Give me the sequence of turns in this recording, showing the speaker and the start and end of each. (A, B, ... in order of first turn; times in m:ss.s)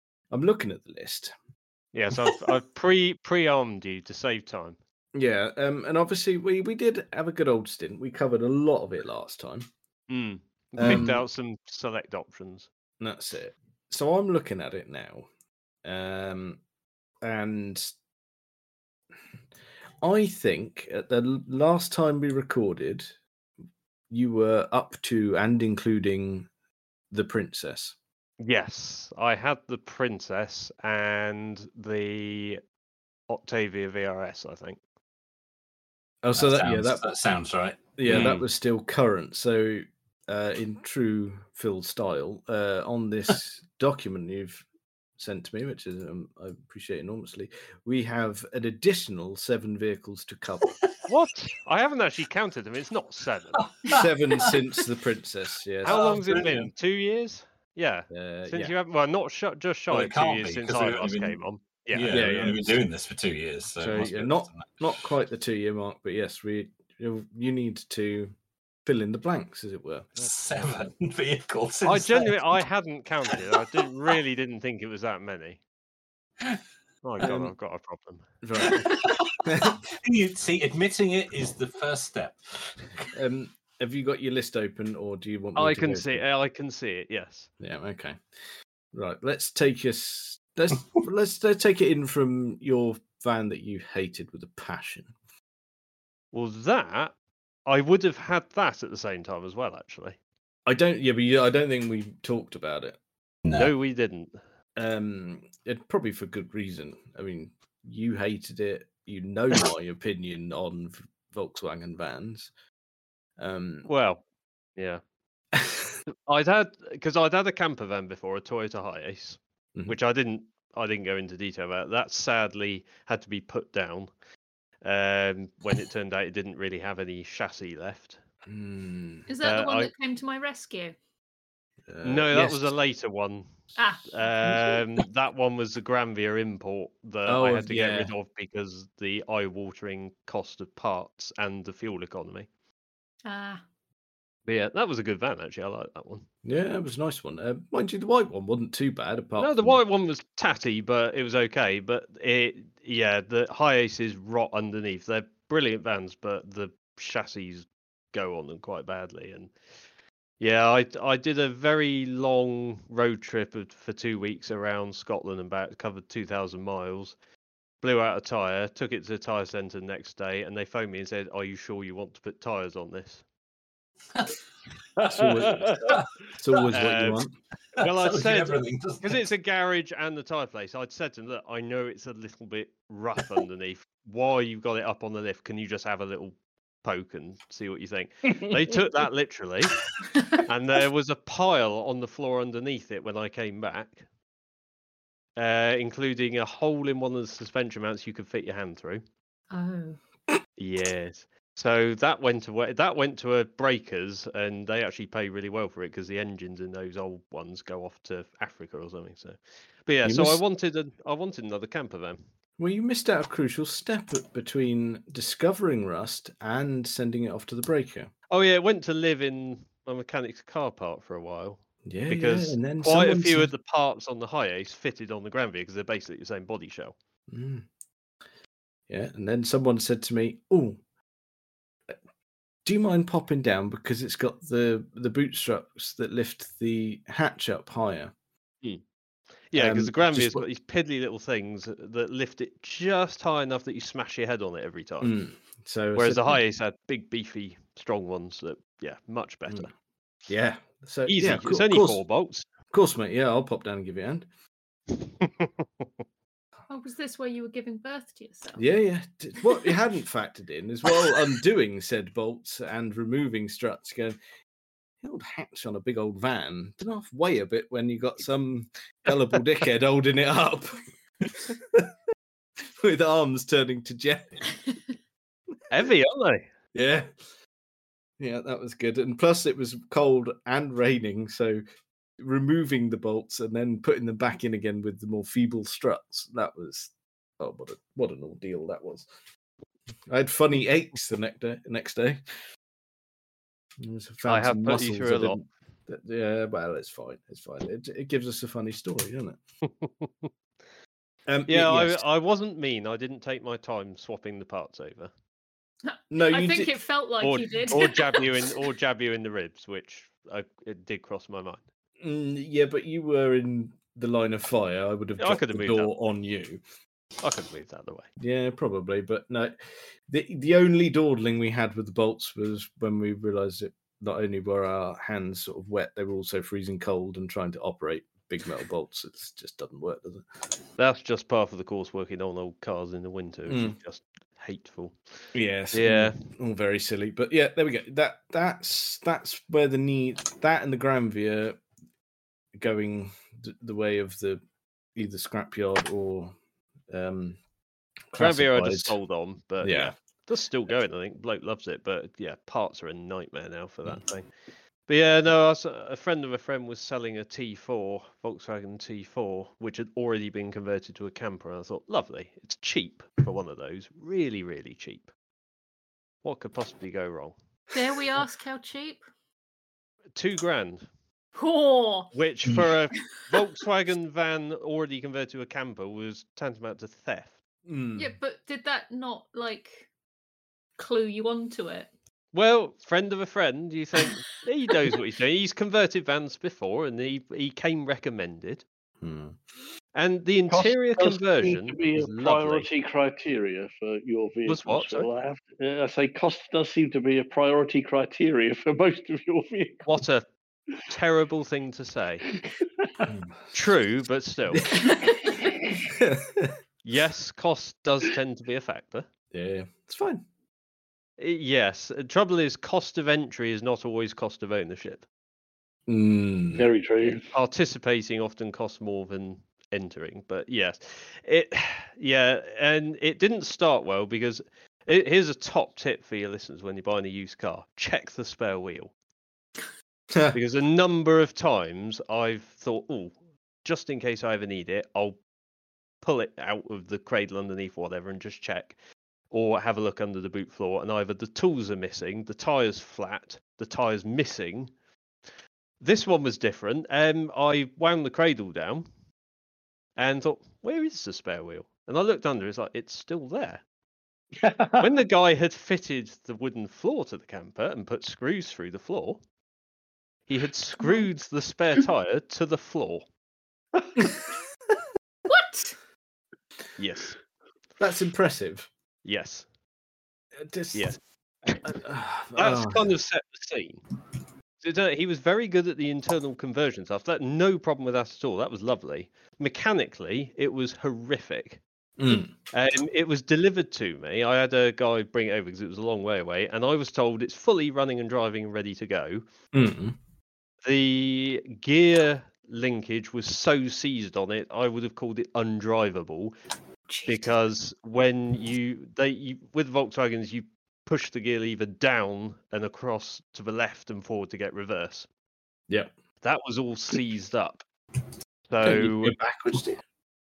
0:00.3-0:01.3 A
0:01.9-0:04.8 B
0:05.1-0:09.6 A
0:10.1-0:12.7 B
0:10.8-0:11.2 A
0:13.0-0:15.3 A
0:15.8-0:16.6 A
0:17.2-0:17.9 A
0:20.0-0:23.1 A
0:24.1-0:26.5 A
0:27.1-0:27.9 A
0:28.4-0:32.6 B
0:33.3-0:34.8 B
0:36.2-0:37.0 A
0:36.4-0:38.4 C
0:38.0-0:44.6 A
0:38.1-0:38.4 B
0:45.2-0:50.8 A
0:51.1-0:53.8 B
0:53.6-0:54.0 C
0:53.9-0:56.3 A
0:55.8-1:02.3 B
0:55.8-0:56.7 C
0:58.1-0:58.7 A
0:59.9-1:01.4 C
1:01.9-1:04.9 C
1:02.1-1:02.8 A
1:03.8-1:08.3 A
1:08.8-1:10.2 A
1:10.2-1:12.4 C
1:11.8-1:15.6 B
1:17.0-1:18.7 B
1:17.2-1:17.5 A
1:18.4-1:19.8 A
1:18.6-1:22.8 C
1:23.1-1:26.2 A
1:25.6-1:27.5 B
1:27.6-1:28.2 A
1:28.9-1:35.1 A
1:36.3-1:37.1 B
1:37.6-1:40.2 B
1:40.6-1:43.0 A
1:43.4-1:43.7 C
1:43.5-1:44.4 B
1:44.8-1:52.5 A
1:53.4-1:53.9 A
1:53.8-1:54.2 B
1:54.8-1:55.0 B
1:55.6-1:55.9 A
1:56.1-2:04.1 B
2:04.8-2:08.2 B
2:08.5-2:09.3 A
2:09.3-2:11.0 D
2:09.4-2:09.9 B
2:11.9-2:12.7 A
2:12.0-2:13.5 B
2:13.8-2:14.8 D
2:14.1-2:22.5 B
2:17.2-2:18.1 A
2:23.2-2:23.6 D
2:24.4-2:26.3 B
2:26.4-2:29.8 A
2:29.4-2:39.5 B
2:40.4-2:47.2 B
2:47.8-2:53.2 B
2:55.0-2:56.0 E
2:55.0-2:57.3 A
2:55.8-2:56.6 C
2:56.7-3:09.8 B
2:57.8-2:59.2 C
3:10.3-3:14.0 B
3:15.4-3:19.0 B
3:19.5-3:20.0 D
3:20.6-3:32.2 B
3:30.0-3:30.4 A
3:32.6-3:38.1 A
3:38.3-3:47.0 B
3:41.8-3:43.5 A
3:47.3-3:47.6 A
3:48.9-3:50.8 A
3:52.6-3:58.1 A
3:59.5-4:05.1 B
3:59.5-4:00.4 A
4:05.0-4:06.4 A
4:05.9-4:09.7 B
4:10.3-4:12.0 A
4:11.1-4:12.4 B
4:12.7-4:14.2 A
4:15.2-4:15.8 B
4:16.7-4:18.6 D
4:18.6-4:24.2 A
4:25.0-4:31.9 A
4:32.8-4:34.6 A
4:35.7-4:36.5 B
4:36.7-4:37.1 A
4:38.2-4:41.6 A
4:42.2-4:49.1 A
4:50.1-4:52.2 A
4:53.8-4:59.4 A
4:54.2-4:55.4 B
4:59.6-5:00.3 B
5:01.3-5:02.0 A
5:01.5-5:05.1 B
5:05.8-5:08.4 D
5:06.1-5:06.7 A
5:07.2-5:11.6 B
5:12.0-5:16.6 A
5:15.2-5:15.9 B
5:17.2-5:18.1 B
5:18.2-5:19.6 A
5:20.1-5:30.2 A
5:30.8-5:35.0 B
5:33.5-5:33.8 A
5:35.3-5:41.6 A
5:35.7-5:36.2 B
5:42.5-5:44.4 A
5:44.9-5:46.3 A
5:46.9-5:47.4 A
5:48.1-5:49.0 A
5:48.2-5:54.3 B
5:49.6-5:49.9 A
5:54.9-6:05.1 B
6:06.2-6:07.4 B
6:07.7-6:09.0 D
6:10.1-6:10.8 B
6:11.4-6:12.1 D
6:12.1-6:17.4 B
6:17.6-6:18.1 A
6:18.0-6:19.9 D
6:20.8-6:21.9 D
6:22.3-6:28.6 B
6:29.0-6:29.4 A
6:29.9-6:32.7 B
6:30.5-6:40.0 E
6:34.4-6:35.1 B
6:39.8-6:40.2 B
6:40.9-6:42.2 B
6:42.4-6:43.0 E
6:43.5-6:44.8 B
6:44.5-6:44.8 A
6:45.9-6:46.5 A
6:46.8-6:49.1 B
6:49.3-6:50.2 A
6:51.2-6:55.0 B
6:55.9-6:56.7 A
6:56.6-6:57.2 E
6:57.0-7:08.9 B
7:10.1-7:10.4 A
7:10.3-7:15.2 B
7:16.0-7:18.8 B
7:19.3-7:24.7 B
7:25.8-7:28.8 B
7:30.0-7:33.6 B
7:34.4-7:34.9 E
7:34.8-7:39.2 B
7:40.3-7:43.0 B
7:45.3-7:45.7 D
7:46.8-7:47.2 B
7:47.8-7:48.7 A
7:49.0-7:49.4 B
7:50.4-7:51.0 A
7:50.7-7:51.7 B
7:51.6-7:52.9 A
7:52.4-7:53.8 B
7:54.6-8:01.6 B
8:02.0-8:02.3 A
8:02.5-8:09.2 B
8:09.5-8:10.0 A
8:10.6-8:16.3 B
8:16.9-8:17.2 D
8:17.0-8:25.1 B
8:26.2-8:27.6 B
8:28.5-8:29.2 B
8:28.6-8:29.8 A